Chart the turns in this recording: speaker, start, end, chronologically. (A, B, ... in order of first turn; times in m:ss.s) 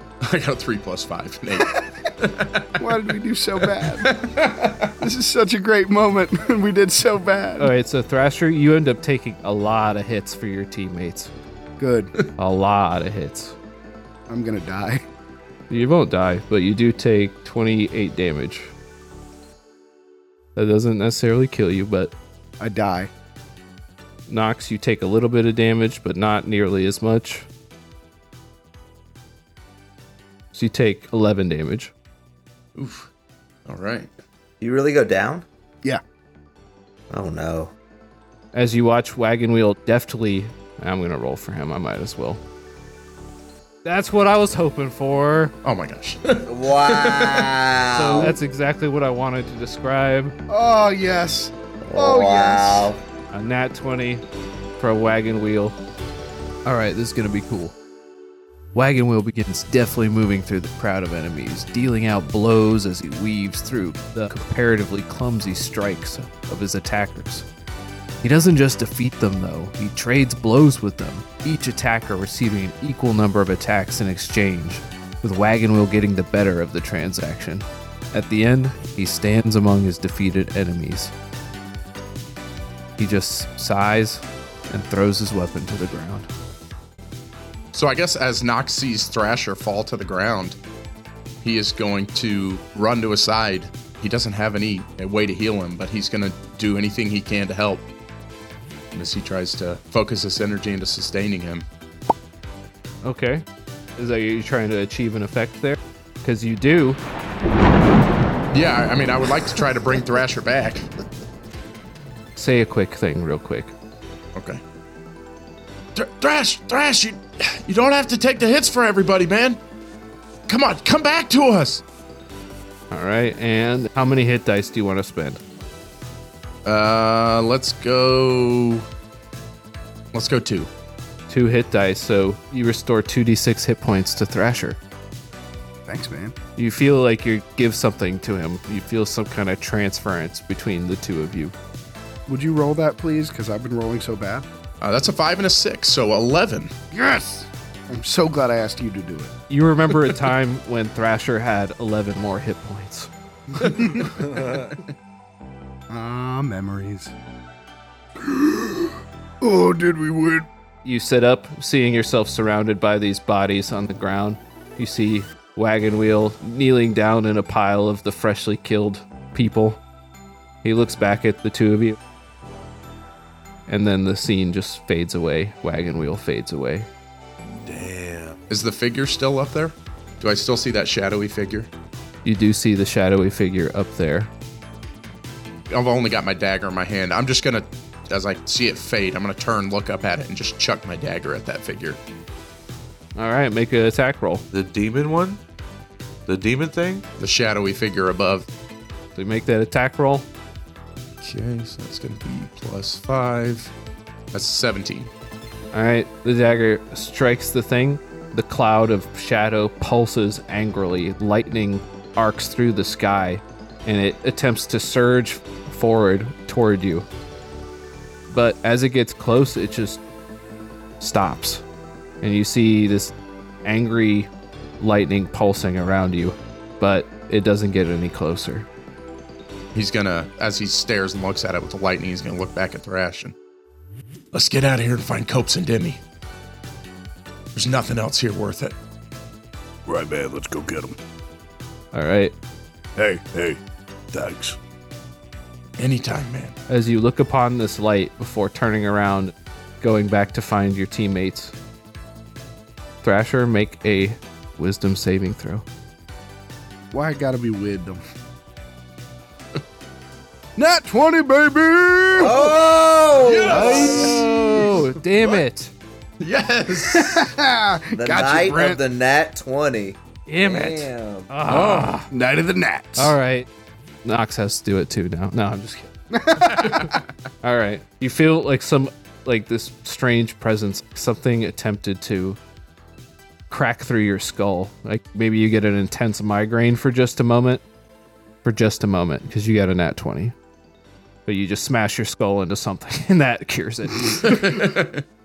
0:00.2-0:03.0 A
0:02.8-0:04.2 B
0:03.8-0:04.9 A
0:05.0-0:07.7 B
0:07.6-0:11.3 C
0:11.8-0:12.1 B
0:12.4-0:13.6 C
0:14.3-0:15.0 B
0:15.7-0:18.7 C
0:20.6-0:22.1 C
0:22.6-0:23.1 B
0:24.3-0:27.5 C
0:30.5-0:31.9 C
0:32.8-0:33.1 A
0:33.6-0:34.1 A
0:34.6-0:35.4 D
0:37.1-0:37.7 D
0:38.5-0:42.4 C
0:43.8-0:45.5 C
0:45.6-0:47.5 A
0:46.4-0:48.3 D
0:47.9-0:50.3 C
0:50.5-0:52.9 B
0:51.8-0:53.0 D
0:53.3-0:54.2 C
0:54.8-0:55.8 C
0:56.6-0:57.8 C
0:58.7-1:07.4 C
1:08.2-1:21.1 C
1:23.0-1:26.3 C
1:27.7-1:30.6 A
1:31.4-1:37.8 A
1:38.9-1:41.6 A
1:43.0-1:43.4 C
1:44.0-1:47.0 C
1:48.5-1:50.9 A
1:52.4-1:53.7 C
1:54.3-1:54.6 A
1:56.0-1:59.6 A
2:00.5-2:01.8 A
2:02.9-2:05.4 C
2:06.6-2:08.8 A
2:10.1-2:10.7 A
2:11.3-2:14.8 C
2:15.9-2:16.3 B
2:16.6-2:21.5 C
2:22.3-2:24.4 B
2:24.8-2:26.7 A
2:26.9-2:29.3 B
2:29.5-2:33.1 C
2:33.6-2:34.0 A
2:33.7-2:34.0 B
2:34.1-2:34.7 E
2:35.9-2:37.1 B
2:38.2-2:40.5 B
2:40.8-2:49.8 C
2:50.6-2:52.0 C
2:53.7-2:56.9 C
2:57.6-2:58.4 E
2:58.5-3:01.7 A
3:02.2-3:04.3 C
3:05.7-3:12.0 A
3:13.2-3:14.4 C
3:14.5-3:15.4 E
3:16.3-3:17.0 E
3:17.2-3:18.5 A
3:19.1-3:20.3 C
3:21.2-3:23.7 A
3:24.3-3:25.1 A
3:25.7-3:37.1 C
3:38.3-3:40.0 C
3:41.0-3:41.6 C
3:42.2-3:48.7 C
3:49.7-3:53.3 A
3:54.3-3:56.0 A
3:57.5-3:58.7 A
3:59.8-4:01.0 F
4:01.9-4:02.3 C
4:03.0-4:04.6 F
4:05.8-4:06.5 A
4:06.7-4:11.5 C
4:13.0-4:15.6 C
4:16.9-4:18.0 B
4:20.6-4:22.4 B
4:22.2-4:24.1 D
4:22.2-4:22.5 A
4:23.2-4:24.7 A
4:23.4-4:24.7 B
4:23.8-4:25.7 C
4:26.2-4:27.3 A
4:26.7-4:28.8 B
4:27.9-4:31.3 D
4:30.3-4:32.1 C
4:31.5-4:31.9 A
4:32.1-4:33.2 B
4:33.0-4:33.5 C
4:34.0-4:35.9 C
4:36.1-4:37.0 B
4:36.4-4:36.9 C
4:37.4-4:42.4 C
4:43.5-4:47.6 C
4:48.4-4:50.3 C
4:51.2-4:54.5 C
4:54.2-4:55.0 A